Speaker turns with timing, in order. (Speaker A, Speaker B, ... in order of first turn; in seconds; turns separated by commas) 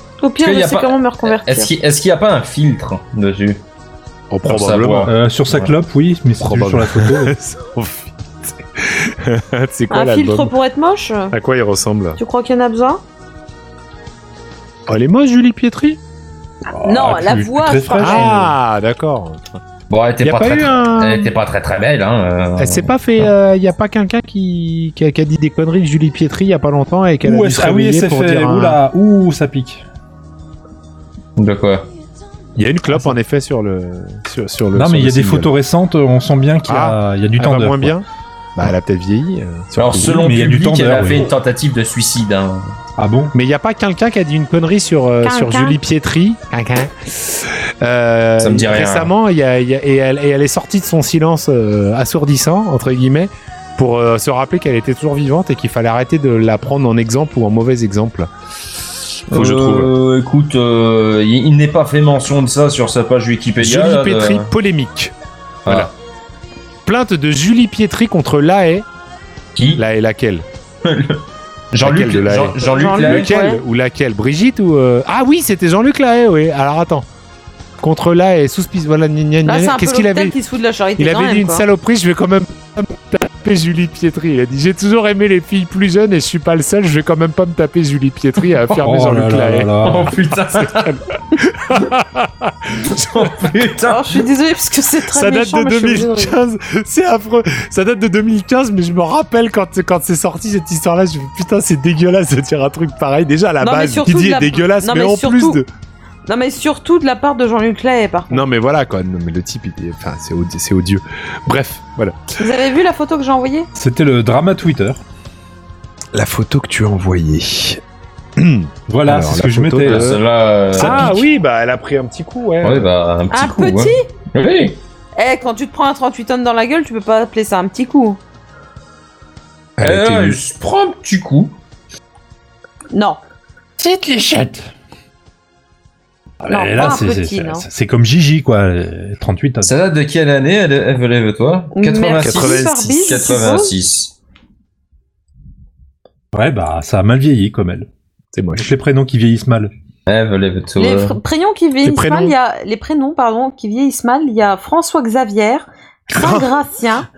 Speaker A: 0.2-1.7, Speaker B: 0.4-3.6, Speaker C: 4.3-5.1, Speaker B: 4.4-5.7, Speaker D: 5.0-7.3, Speaker C: 6.4-10.5, Speaker A: 9.9-11.3, Speaker C: 11.3-12.2, Speaker A: 12.2-13.0, Speaker C: 14.9-16.0, Speaker D: 16.7-18.6, Speaker A: 16.8-18.3, Speaker C: 18.0-19.6, Speaker B: 19.9-23.3, Speaker C: 20.2-21.3, Speaker C: 22.6-28.8, Speaker D: 27.2-29.8, Speaker B: 31.4-31.9, Speaker C: 32.6-35.5, Speaker D: 32.9-33.2, Speaker D: 34.7-38.0, Speaker C: 36.6-38.0, Speaker C: 38.5-40.2, Speaker B: 39.8-42.6, Speaker D: 40.1-41.3, Speaker D: 43.0-43.3, Speaker C: 43.3-58.3, Speaker A: 45.2-45.8, Speaker B: 48.4-49.1, Speaker C: 59.3-59.9, Speaker B: 59.3-64.5, Speaker C: 63.6-65.1, Speaker B: 65.6-65.9, Speaker C: 66.8-68.8, Speaker B: 69.5-69.8, Speaker C: 69.7-70.5, Speaker B: 70.8-73.3, Speaker C: 71.8-77.0, Speaker A: 72.6-73.6, Speaker C: 77.8-80.3, Speaker A: 79.4-81.7, Speaker C: 81.0-89.7, Speaker D: 88.7-90.2, Speaker B: 89.8-91.0, Speaker C: 90.8-93.5, Speaker B: 92.8-94.2, Speaker A: 93.8-96.3, Speaker C: 95.0-105.7, Speaker A: 103.6-105.6, Speaker A: 106.2-108.4, Speaker C: 108.3-112.3, Speaker A: 112.4-113.7, Speaker D: 113.8-115.0, Speaker C: 116.1-117.8, Speaker C: 118.4-120.2, Speaker D: 118.9-120.2, Speaker B: 119.8-121.2, Speaker C: 120.7-122.9, Speaker D: 120.8-121.1, Speaker B: 122.6-124.8, Speaker A: 123.3-124.0, Speaker A: 125.2-128.2, Speaker C: 129.8-130.4, Speaker B: 129.8-131.5, Speaker A: 132.9-133.2, Speaker D: 133.8-134.7, Speaker D: 136.4-139.7, Speaker A: 136.5-137.6, Speaker B: 139.6-144.1, Speaker A: 141.7-143.7, Speaker C: 142.2-143.4, Speaker D: 146.3-147.9, Speaker C: 148.3-148.7, Speaker D: 148.6-149.7, Speaker B: 150.1-151.2, Speaker A: 150.8-157.1, Speaker C: 151.8-152.3, Speaker C: 156.1-156.5